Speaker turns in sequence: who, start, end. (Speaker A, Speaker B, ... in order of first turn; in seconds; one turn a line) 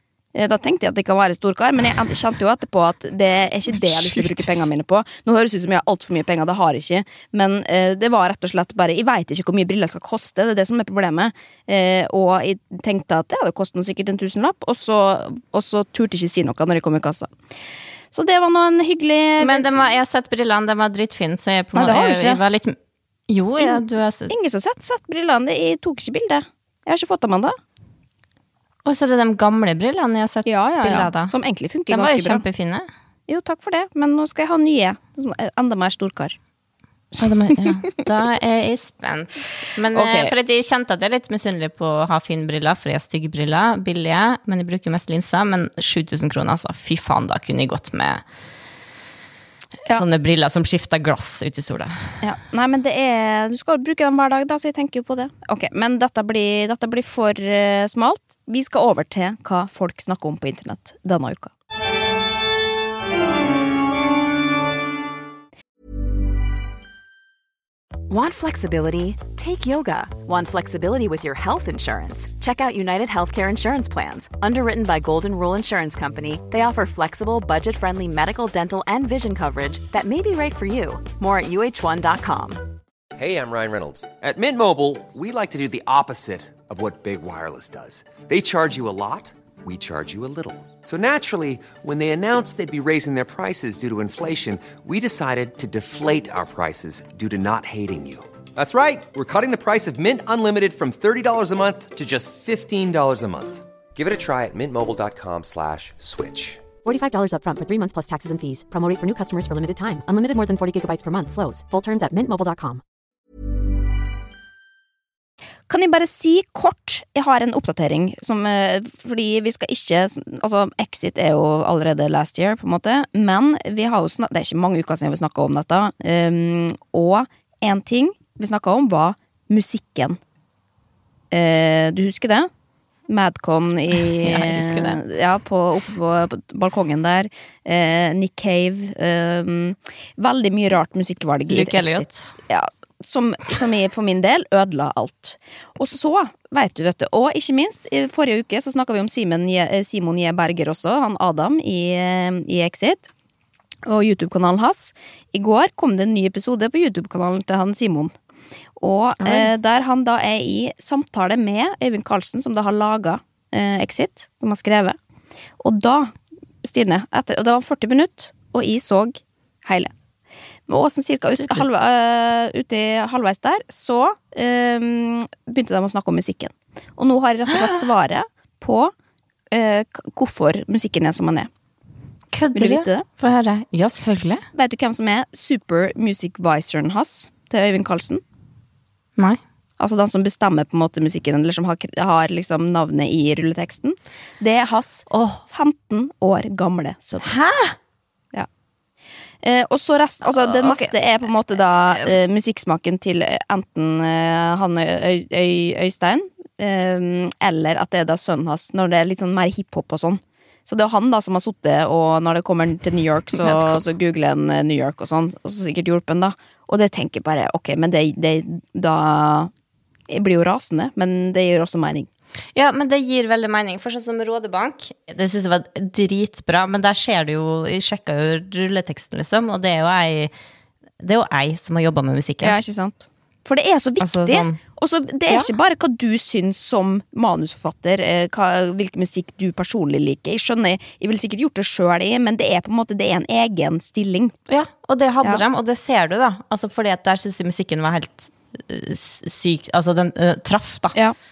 Speaker A: 0.3-17.3
Speaker B: 3.7-4.6
Speaker A: 18.1-19.9
Speaker B: 19.4-22.8
Speaker A: 21.7-22.4
Speaker B: 23.3-24.3
Speaker A: 23.6-27.6
Speaker B: 28.8-31.3
Speaker A: 30.4-32.4
Speaker B: 31.9-32.9
Speaker A: 33.3-36.4
Speaker B: 37.2-48.2
Speaker A: 39.9-40.3
Speaker B: 49.9-52.2
Speaker A: 52.2-61.5
Speaker C: 68.1-82.6
Speaker D: 83.2-106.6
Speaker E: 106.8-112.8
Speaker A: 115.7-130.2
Speaker A: 131.3-132.5
Speaker A: 133.1-153.1
Speaker B: 134.2-135.0
Speaker B: 141.5-142.3
Speaker A: 153.8-158.1
Speaker A: 158.8-165.0
Speaker B: 159.2-159.5
Speaker A: 165.6-169.9
Speaker A: 170.7-178.9
Speaker A: 179.5-181.5
Speaker B: 182.3-184.4
Speaker A: 182.5-183.1
Speaker A: 184.5-188.2
Speaker A: 189.8-197.3
Speaker B: 195.1-195.4
Speaker B: 197.2-197.8
Speaker A: 199.4-219.5
Speaker B: 200.2-200.9
Speaker B: 213.3-213.8
Speaker A: 220.1-222.1
Speaker B: 222.5-230.3
Speaker B: 231.0-232.6
Speaker A: 232.4-244.3
Speaker B: 234.0-234.6
Speaker B: 235.3-235.5
Speaker B: 244.5-250.9